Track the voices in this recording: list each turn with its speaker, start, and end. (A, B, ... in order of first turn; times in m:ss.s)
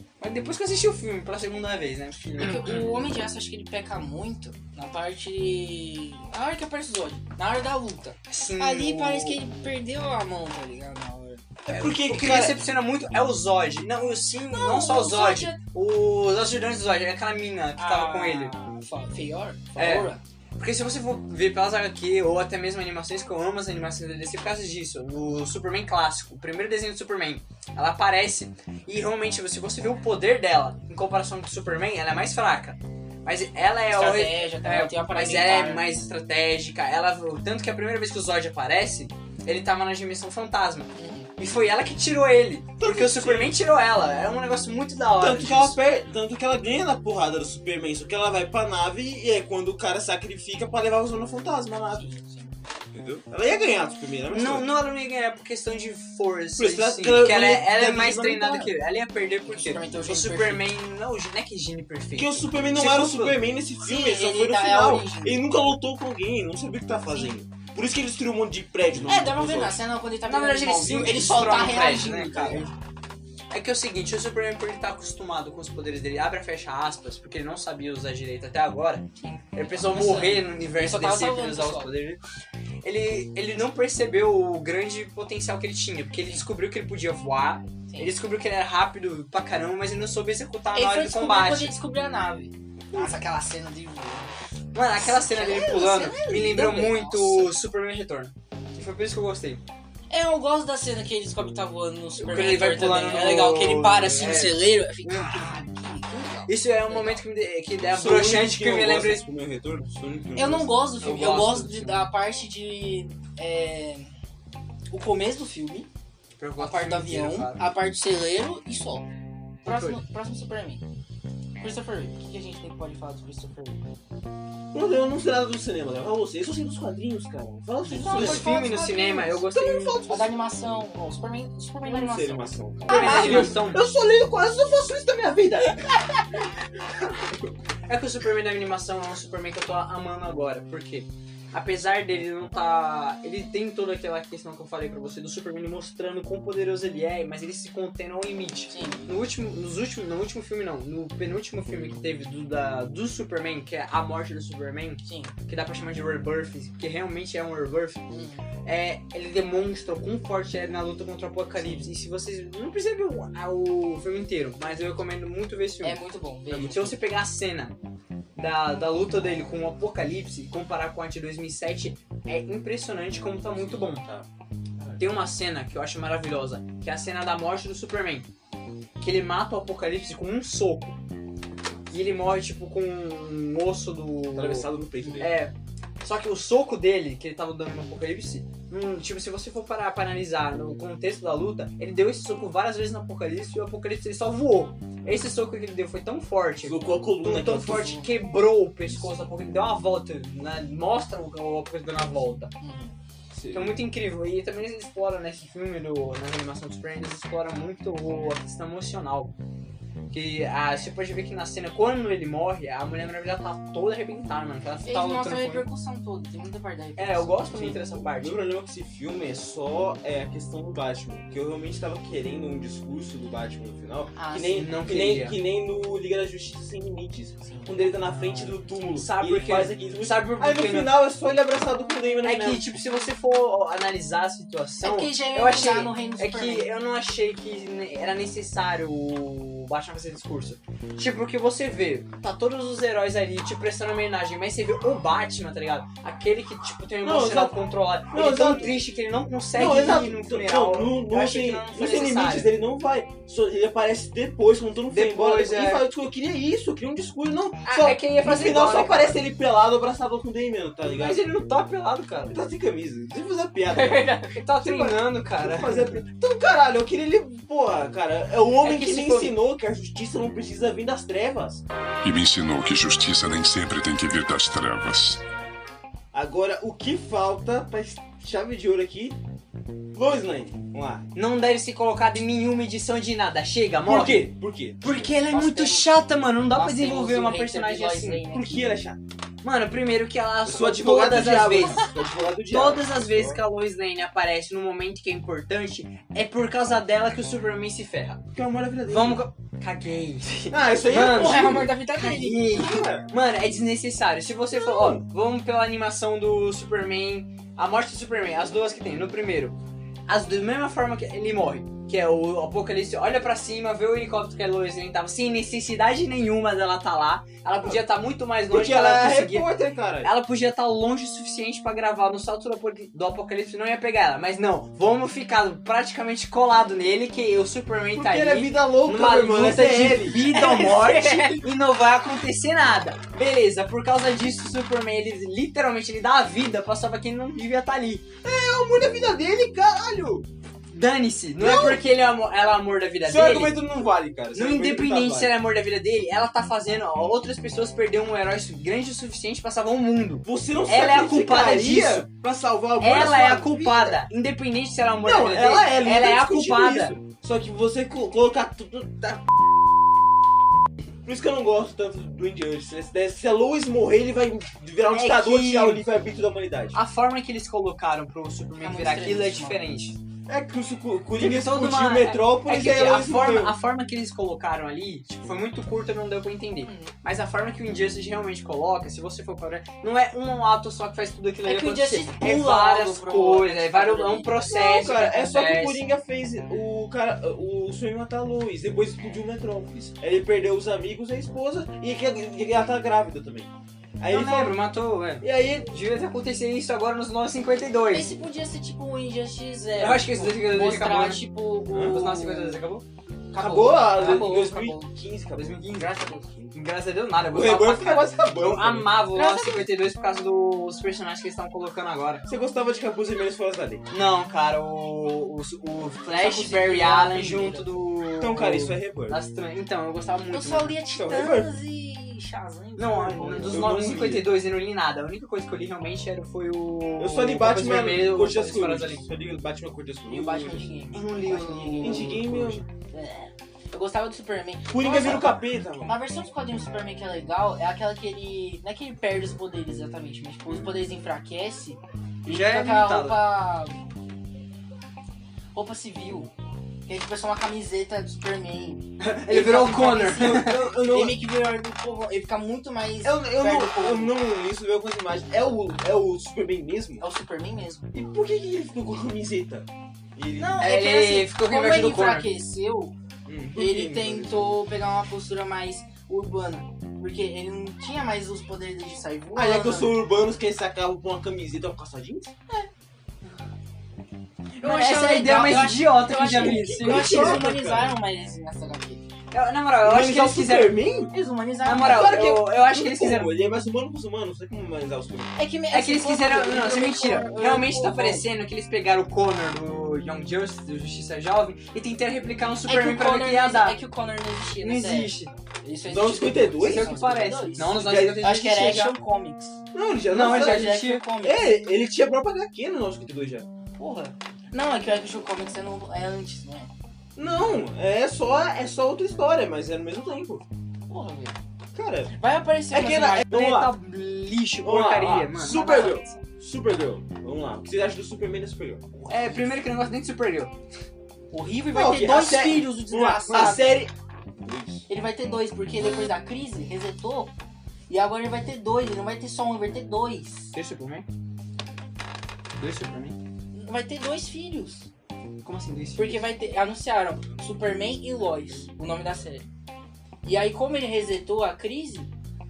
0:00.2-0:02.9 A
0:02.4-0:11.4 B
0:08.3-0:09.4 A
0:11.7-0:12.6 C
0:11.7-0:18.5 A
0:14.5-0:15.6 B
0:17.8-0:20.2 B
0:19.8-0:45.8 A
0:33.9-0:35.8 B
0:41.0-0:41.3 B
0:42.8-0:43.6 C
0:45.2-0:52.1 C
0:51.9-0:52.5 B
0:52.9-0:54.7 C
0:54.3-1:03.4 A
0:56.6-0:58.7 C
0:59.4-1:00.6 B
1:02.1-1:09.8 C
1:03.8-1:05.5 B
1:09.0-1:12.7 B
1:10.2-1:12.7 A
1:13.5-1:22.2 A
1:19.2-1:21.9 B
1:22.8-1:31.7 A
1:27.9-1:28.2 B
1:30.7-1:34.3 B
1:34.7-1:39.6 A
1:34.9-1:37.6 B
1:40.1-1:47.2 B
1:42.2-1:45.5 A
1:46.5-1:49.2 A
1:47.8-1:50.7 C
1:50.4-1:54.1 B
1:51.0-1:52.0 A
1:54.9-1:55.9 B
1:56.4-1:57.6 A
1:56.6-1:59.0 B
1:59.6-2:00.8 B
1:59.6-2:00.0 A
2:01.6-2:03.8 B
2:04.7-2:08.4 C
2:07.8-2:09.4 B
2:08.0-2:10.0 A
2:09.5-2:10.3 C
2:10.1-2:13.6 B
2:11.8-2:16.0 C
2:12.9-2:13.8 A
2:17.9-2:38.0 A
2:28.7-2:29.2 B
2:35.0-2:35.3 B
2:38.1-2:38.4 B
2:38.6-2:47.8 A
2:45.8-2:47.0 B
2:48.4-2:54.0 A
2:53.5-2:54.3 C
2:55.0-2:58.3 A
2:59.0-3:01.0 A
3:01.9-3:04.7 A
3:04.3-3:05.3 C
3:05.0-3:05.3 B
3:05.2-3:22.5 A
3:16.6-3:18.0 C
3:17.7-3:18.1 B
3:22.6-3:22.9 B
3:23.3-3:23.8 C
3:23.5-3:29.3 A
3:30.1-3:35.6 A
3:34.8-3:37.8 B
3:37.0-3:38.4 A
3:37.9-3:52.6 C
3:44.2-3:44.7 B
3:44.5-3:45.4 A
3:48.9-3:51.0 A
3:52.2-4:12.5 A
3:54.8-3:56.7 B
4:07.0-4:07.6 C
4:08.1-4:08.7 C
4:09.5-4:21.3 C
4:14.9-4:15.8 A
4:17.6-4:19.2 A
4:20.9-4:22.4 A
4:22.3-4:31.6 C
4:23.7-4:26.0 A
4:28.6-4:29.3 A
4:32.0-4:35.2 D
4:36.1-4:39.2 C
4:39.9-4:41.1 C
4:41.1-4:48.2 A
4:43.8-4:45.1 C
4:45.3-4:45.9 B
4:46.5-4:48.7 B
4:48.3-4:49.0 C
4:49.4-4:51.9 A
4:50.4-4:53.4 C
4:52.5-4:58.2 A
4:58.3-4:59.2 C
4:58.9-5:09.6 A
5:00.5-5:01.7 C
5:01.1-5:02.7 B
5:02.5-5:03.1 C
5:04.5-5:05.0 C
5:10.1-5:19.5 A
5:18.5-5:20.1 C
5:20.0-5:38.0 A
5:27.9-5:30.2 C
5:30.2-5:31.4 B
5:38.2-5:40.3 C
5:40.7-5:43.6 A
5:41.4-5:41.8 C
5:43.0-5:45.3 C
5:44.3-5:52.1 A
5:50.2-5:54.1 C
5:52.8-5:57.0 A
5:55.0-5:59.4 C
6:01.0-6:06.8 C
6:04.9-6:05.8 A
6:06.7-6:10.0 A
6:08.6-6:09.6 B
6:10.3-6:13.6 C
6:11.1-6:25.8 A
6:16.6-6:16.9 B
6:21.4-6:24.4 B
6:24.5-6:34.6 C
6:34.1-6:38.1 A
6:35.2-6:35.7 C
6:37.9-6:42.6 B
6:39.8-6:42.8 A
6:41.7-6:42.0 C
6:43.3-6:44.9 B
6:43.3-6:45.6 C
6:44.0-6:44.3 A
6:45.3-6:45.9 A
6:45.7-6:46.3 B
6:46.5-6:52.2 A
6:47.3-6:48.9 C
6:49.1-6:49.7 B
6:52.2-6:53.8 C
6:53.9-7:00.8 A
6:56.0-6:57.8 B
6:58.2-6:59.2 C
7:00.3-7:03.6 B
7:01.0-7:01.5 C
7:02.8-7:09.1 A
7:03.4-7:04.3 C
7:07.0-7:10.6 C
7:10.1-7:12.2 B
7:10.9-7:12.6 A
7:11.8-7:12.6 C
7:12.9-7:23.9 B
7:14.7-7:16.0 C
7:22.2-7:23.3 A
7:25.5-7:26.3 B
7:26.8-7:34.2 B
7:29.0-7:30.6 A
7:30.1-7:31.2 C
7:33.0-7:37.0 C
7:37.0-7:37.9 B
7:37.9-7:40.6 C
7:40.4-7:42.9 B
7:40.6-7:42.3 A
7:43.2-7:44.6 C
7:43.5-7:49.9 B
7:49.4-7:52.3 C
7:54.6-7:59.0 B
7:54.6-7:57.5 A
7:56.4-7:57.9 C
7:59.3-8:00.8 A
7:59.8-8:01.1 C
8:01.1-8:02.2 B
8:01.6-8:03.3 A
8:01.8-8:05.3 C
8:05.4-8:08.2 B
8:05.7-8:13.8 A
8:12.6-8:19.6 B
8:14.6-8:15.3 A
8:15.9-8:17.0 C
8:16.6-8:18.9 A
8:17.8-8:18.3 C
8:19.7-8:23.5 C
8:20.1-8:21.0 A
8:20.1-8:21.4 B
8:23.8-8:26.7 B
8:27.2-8:30.4 C
8:30.9-8:31.4 B
8:31.7-8:32.1 C
8:32.1-8:33.3 B
8:32.7-8:33.7 C
8:33.3-8:36.0 A
8:34.6-8:38.9 C
8:35.6-8:36.1 B
8:38.9-8:39.6 B
8:39.1-8:40.5 A
8:41.3-8:43.8 B
8:41.7-8:44.8 C
8:44.9-8:47.3 B
8:47.9-8:50.5 B
8:50.5-8:51.0 A
8:52.6-8:53.2 A
8:53.5-8:54.9 B
8:55.4-8:56.2 A
8:56.0-8:59.4 B
9:00.2-9:02.1 B